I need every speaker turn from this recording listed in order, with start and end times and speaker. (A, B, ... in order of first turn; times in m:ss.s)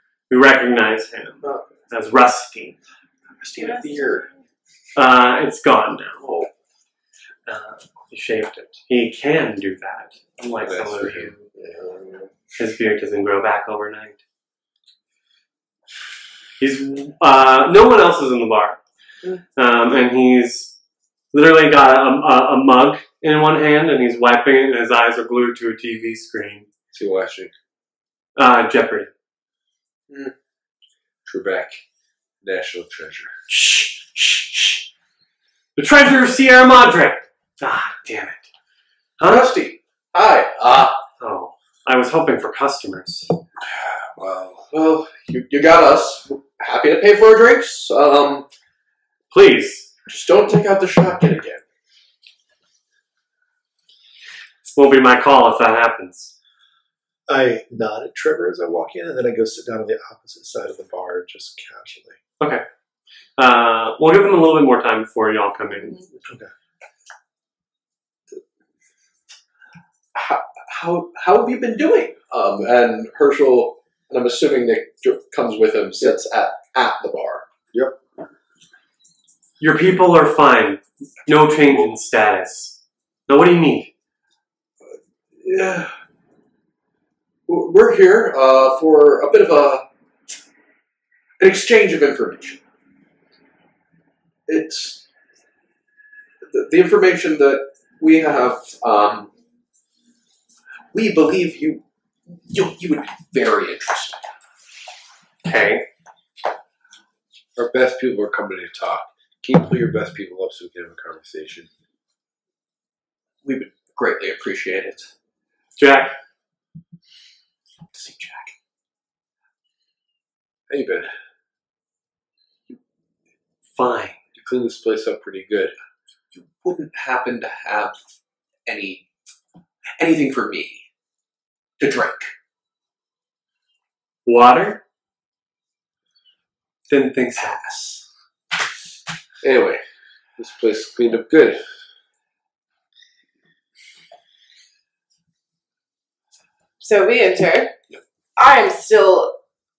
0:00.3-0:02.8 A
0:03.4-0:04.3 B
0:03.6-0:04.2 C
0:05.0-0:06.5 A
0:06.2-0:06.5 B
0:07.5-0:11.4 A
0:10.6-0:11.4 D
0:11.6-0:12.3 B
0:12.6-0:14.2 A
0:16.6-0:18.8 A
0:19.6-0:20.7 A
0:21.3-0:26.7 A
0:26.9-0:27.5 D
0:28.4-0:29.1 A
0:31.2-0:31.8 D
0:32.4-0:33.3 D
0:33.5-0:34.9 A
0:35.8-0:38.4 A
0:39.2-0:39.5 A
0:39.2-0:41.0 B
0:41.2-0:43.3 A
0:43.7-0:44.7 D
0:44.7-0:48.5 B
0:49.3-0:49.9 A
0:50.1-0:51.6 B
0:54.6-0:56.3 A
0:57.3-1:02.2 E
1:03.4-1:06.0 A
1:06.2-1:06.5 E
1:10.2-1:17.4 B
1:19.6-1:22.8 A
1:23.3-1:23.9 A
1:25.4-1:25.9 B
1:27.5-1:29.8 B
1:31.4-1:32.6 B
1:34.5-1:35.0 B
1:36.5-1:39.3 B
1:40.9-1:41.8 B
1:42.5-1:44.2 B
1:45.4-1:45.9 A
1:47.6-1:51.7 D
1:53.4-1:55.1 B
1:55.8-1:56.2 A
1:57.9-1:58.5 B
2:00.7-2:01.1 D
2:03.8-2:04.2 A
2:04.4-2:05.7 D
2:06.4-2:08.0 B
2:08.7-2:09.0 B
2:10.0-2:10.8 B
2:11.8-2:12.3 B
2:14.3-2:14.8 A
2:16.9-2:17.9 A
2:19.4-2:19.8 D
2:20.4-2:21.6 D
2:26.8-2:27.8 C
2:28.4-2:29.4 C